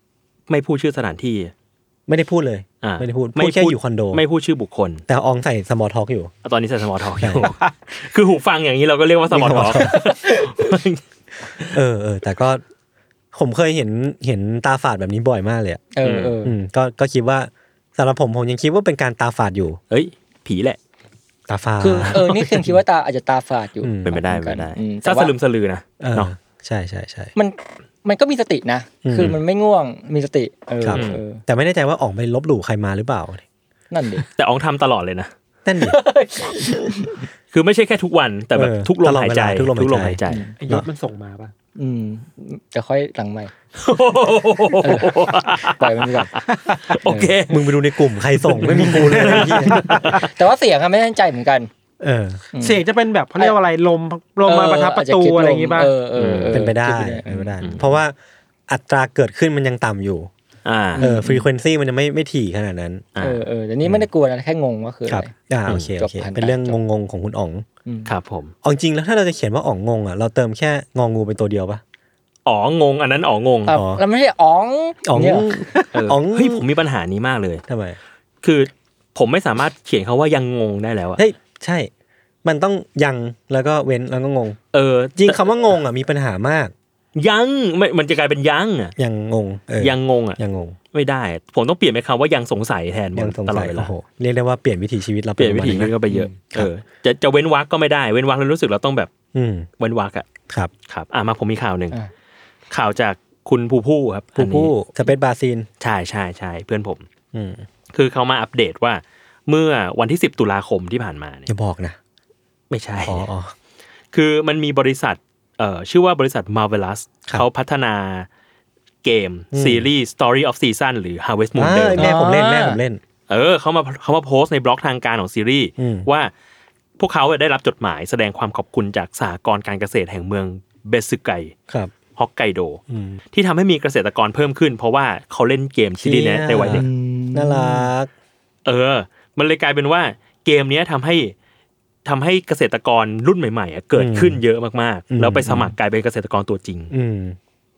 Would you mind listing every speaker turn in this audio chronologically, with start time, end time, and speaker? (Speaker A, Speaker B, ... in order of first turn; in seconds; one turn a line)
Speaker A: 0.5-1.5
Speaker B: 2.1-4.2
Speaker A: 2.8-5.0
Speaker B: 5.1-6.3
Speaker A: 6.4-11.0
Speaker B: 7.2-7.5
Speaker B: 9.3-9.9
Speaker C: 9.8-10.5
Speaker B: 11.7-12.6
Speaker B: 13.3-15.8
Speaker C: 15.9-16.5
Speaker A: 16.0-16.3
Speaker B: 16.4-19.8
Speaker A: 19.9-20.8
Speaker B: 21.5-22.4
Speaker C: 21.8-25.3
Speaker A: 22.1-22.4
Speaker B: 23.8-24.2
Speaker A: 24.1-26.3
Speaker B: 26.0-27.3
Speaker C: 27.3-31.4
Speaker B: 29.0-29.4
Speaker B: 30.8-33.4
Speaker A: 30.9-31.2
Speaker C: 33.9-34.2
Speaker A: 34.3-35.3
Speaker B: 35.6-36.0
Speaker C: 35.8-37.2
Speaker A: 37.5-40.5
Speaker B: 38.5-40.9
Speaker C: 40.3-40.5
Speaker D: 40.6-41.5
Speaker C: 41.8-43.5
Speaker A: 43.8-50.3
Speaker C: 44.8-46.3
Speaker D: 46.5-46.8
Speaker C: 47.0-47.3
Speaker B: 47.5-49.9
Speaker D: 48.6-50.2
Speaker C: 49.7-51.7
Speaker B: 52.0-52.4
Speaker C: 52.5-52.8
Speaker D: 52.6-55.9
Speaker C: 54.4-57.5
Speaker A: 56.1-56.6
Speaker B: 56.5-58.1
Speaker A: 57.6-58.0
Speaker B: 58.7-60.3
Speaker A: 60.6-61.0
Speaker C: 61.0-61.5
Speaker B: 61.0-63.1
Speaker A: 63.1-63.4
Speaker C: 63.2-65.3
Speaker B: 65.1-67.6
Speaker C: 66.0-66.8
Speaker C: 67.8-68.1
Speaker A: 68.1-68.5
Speaker B: 68.6-71.8
Speaker A: 72.5-73.8
Speaker C: 73.7-75.9
Speaker B: 73.7-74.0
Speaker B: 75.0-76.6
Speaker A: 75.9-77.6
Speaker B: 77.7-78.0
Speaker A: 78.4-81.2
Speaker B: 81.2-81.9
Speaker B: 82.4-84.6
Speaker A: 84.7-85.4
Speaker B: 85.2-86.7
Speaker A: 87.2-88.9
Speaker B: 89.0-90.8
Speaker A: 89.8-90.4
Speaker A: 90.9-93.9
Speaker B: 93.2-96.7
Speaker A: 95.4-99.1
Speaker B: 99.3-99.7
Speaker A: 99.8-100.3
Speaker A: 100.9-102.0
Speaker A: 102.7-104.7
Speaker B: 104.4-105.7
Speaker A: 105.8-107.0
Speaker B: 107.3-107.6
Speaker A: 107.9-111.5
Speaker B: 111.5-112.0
Speaker A: 112.7-113.3
Speaker B: 113.0-113.5
Speaker A: 114.1-118.3
Speaker A: 119.0-122.1
Speaker B: 119.5-119.8
Speaker B: 121.5-123.0
Speaker C: 122.0-122.8
Speaker A: 123.3-126.3
Speaker B: 125.8-126.1
Speaker A: 127.0-131.5
Speaker A: 132.2-132.8
Speaker B: 132.9-133.2
Speaker A: 133.3-136.8
Speaker B: 136.0-138.1
Speaker C: 136.7-137.9
Speaker A: 138.6-141.3
Speaker A: 142.1-146.9
Speaker B: 143.9-144.4
Speaker B: 145.1-145.7
Speaker B: 146.9-147.4